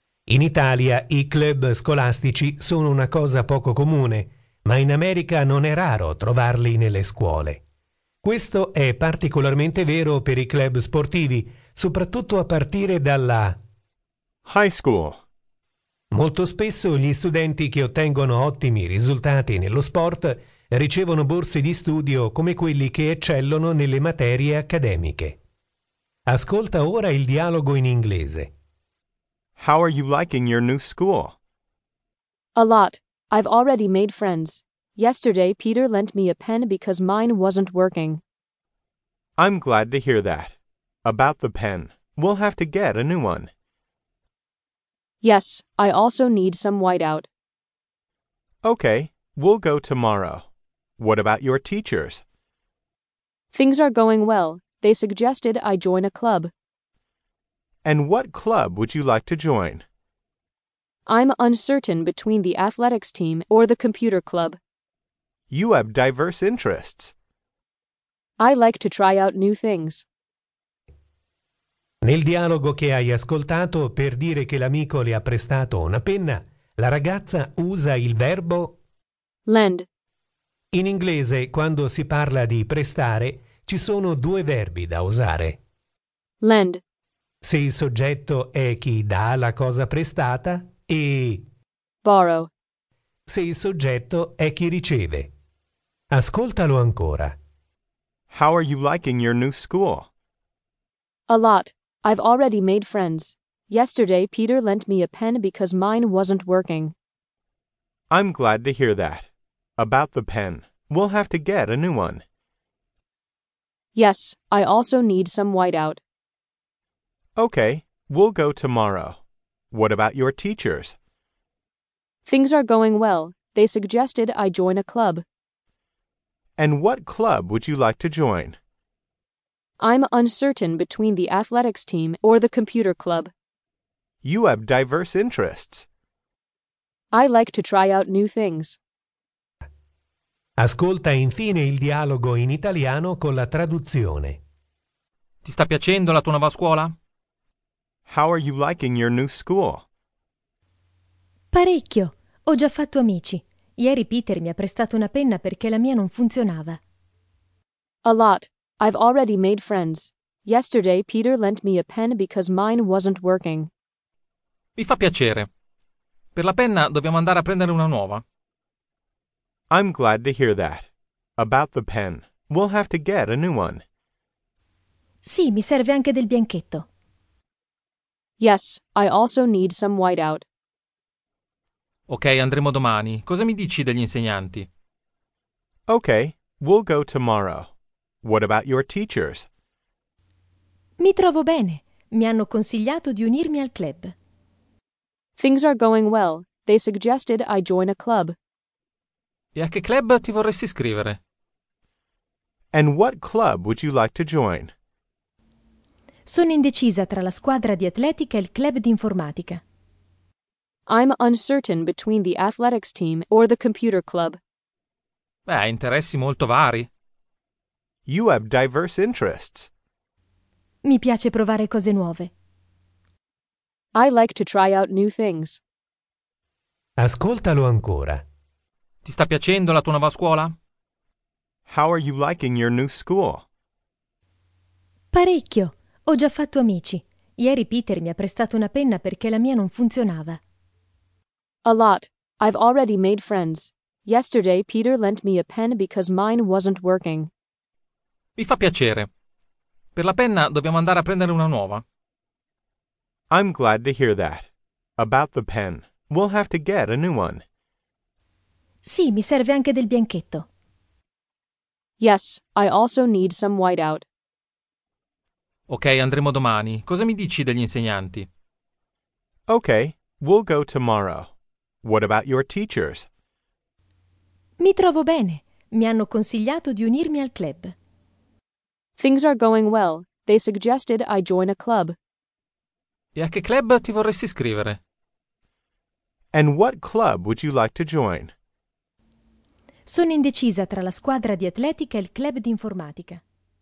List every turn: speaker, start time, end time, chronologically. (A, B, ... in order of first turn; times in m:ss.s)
0:00.3-0:07.6 A
0:08.2-0:13.6 A
0:14.4-0:15.2 B
0:16.1-0:25.4 A
0:26.3-0:28.5 A
0:29.6-0:31.3 B
0:32.6-0:38.2 C
0:39.4-0:43.5 B
0:45.2-0:47.3 C
0:48.6-0:50.5 B
0:51.0-0:52.2 B
0:53.5-0:56.5 C
0:57.8-0:59.8 B
1:01.1-1:04.6 C
1:05.5-1:07.1 B
1:08.4-1:10.0 C
1:12.0-1:18.8 A
1:19.5-1:19.8 C
1:20.7-1:25.6 A
1:26.4-1:26.8 C
1:27.4-1:31.4 A
1:32.0-1:32.5 C
1:33.3-1:35.3 A
1:36.1-1:37.3 A
1:38.3-1:40.1 B
1:41.3-1:46.9 C
1:48.1-1:52.2 B
1:53.9-1:56.0 C
1:57.4-1:59.2 B
1:59.7-2:01.0 B
2:02.2-2:05.2 C
2:06.6-2:08.6 B
2:09.8-2:13.3 C
2:14.2-2:15.9 B
2:17.1-2:18.8 C
2:20.6-2:24.4 A
2:25.4-2:26.9 D
2:28.1-2:29.8 B
2:31.5-2:36.8 E
2:38.0-2:43.7 C
2:44.8-2:45.5 D
2:46.3-2:48.2 D
2:49.7-2:53.8 B
2:55.2-2:56.8 E
2:58.4-3:00.4 C
3:02.1-3:04.7 D
3:05.9-3:07.7 B
3:08.2-3:09.5 B
3:11.0-3:14.1 E
3:15.4-3:18.3 C
3:19.5-3:21.2 D
3:22.7-3:24.7 B
3:26.3-3:29.6 E
3:30.9-3:34.4 C
3:35.5-3:36.9 D
3:38.0-3:39.7 B
3:40.8-3:42.3 E
3:43.9-3:45.6 C
3:47.0-3:48.2 A
3:49.0-3:50.5 D
3:51.7-3:53.4 B
3:55.1-4:00.4 E
4:01.6-4:07.3 C
4:08.4-4:09.1 D
4:09.9-4:11.8 D
4:13.3-4:17.4 B
4:18.8-4:20.4 E
4:22.0-4:24.0 C
4:25.7-4:28.3 D
4:29.5-4:31.3 B
4:31.8-4:33.1 B
4:34.6-4:37.7 E
4:39.0-4:42.0 C
4:43.2-4:44.8 D
4:46.3-4:48.3 B
4:49.9-4:53.2 E